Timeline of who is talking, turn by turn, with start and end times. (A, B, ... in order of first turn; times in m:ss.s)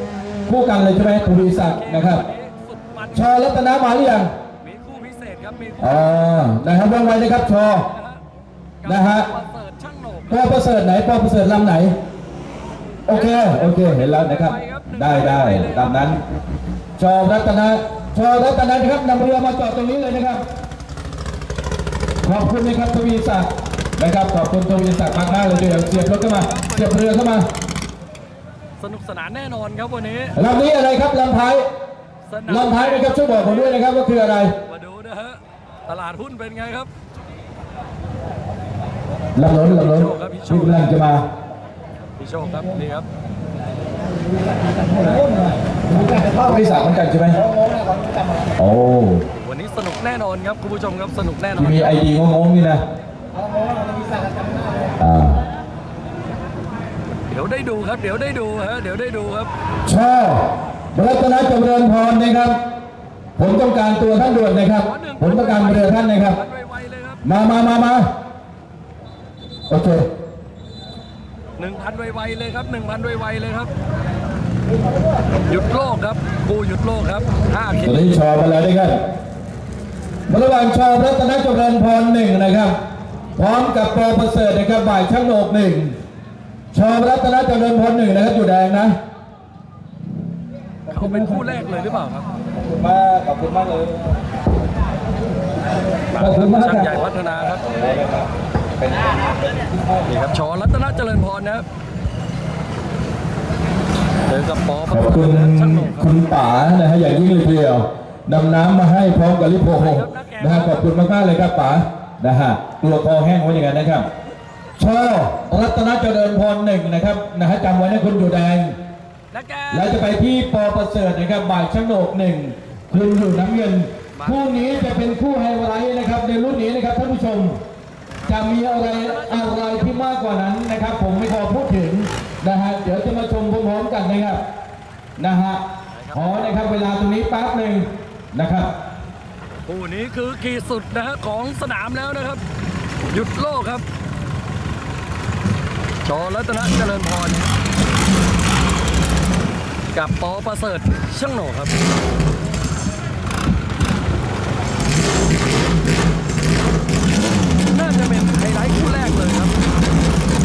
0:00.5-0:02.2 A
0:01.0-0:03.4 B
0:03.1-0:04.3 A
0:04.6-0:06.5 B
0:05.8-0:07.9 A
0:07.8-0:08.2 B
0:08.8-0:10.5 B
0:08.9-0:09.3 A
0:10.3-0:12.0 A
0:13.1-0:16.2 A
0:13.2-0:16.0 B
0:17.0-0:20.4 A
0:22.2-0:27.5 A
0:25.0-0:27.0 B
0:28.8-0:30.4 B
0:30.4-0:31.7 A
0:32.3-0:33.8 B
0:32.5-0:34.6 A
0:34.6-0:36.9 B
0:39.4-0:41.2 A
0:39.7-0:40.9 B
0:42.2-0:43.1 B
0:45.0-0:45.5 A
0:46.0-0:47.4 A
0:48.6-0:49.3 A
0:49.4-0:51.9 B
0:51.6-0:52.8 A
0:55.0-0:55.4 A
0:57.3-0:59.5 B
0:59.9-1:02.6 A
1:03.4-1:06.4 A
1:04.8-1:07.2 B
1:07.2-1:08.1 A
1:09.7-1:10.1 A
1:11.6-1:13.7 B
1:15.5-1:18.1 B
1:17.8-1:19.0 A
1:20.3-1:22.8 A
1:23.4-1:26.0 A
1:26.7-1:28.9 A
1:30.9-1:31.7 A
1:30.9-1:32.3 B
1:32.6-1:34.2 A
1:36.2-1:37.7 B
1:36.2-1:37.1 A
1:37.6-1:38.3 A
1:38.8-1:39.2 A
1:40.1-1:41.7 B
1:44.3-1:46.2 B
1:44.9-1:54.1 A
1:49.7-1:50.9 B
1:54.8-1:58.8 A
1:59.3-2:00.0 B
1:59.7-2:07.6 A
2:04.1-2:04.4 B
2:08.3-2:14.4 A
2:08.8-2:10.0 B
2:15.2-2:15.6 A
2:16.0-2:16.3 B
2:16.1-2:18.7 A
2:19.7-2:22.4 B
2:23.1-2:23.8 B
2:26.0-2:27.5 B
2:29.9-2:31.8 B
2:37.7-2:39.5 B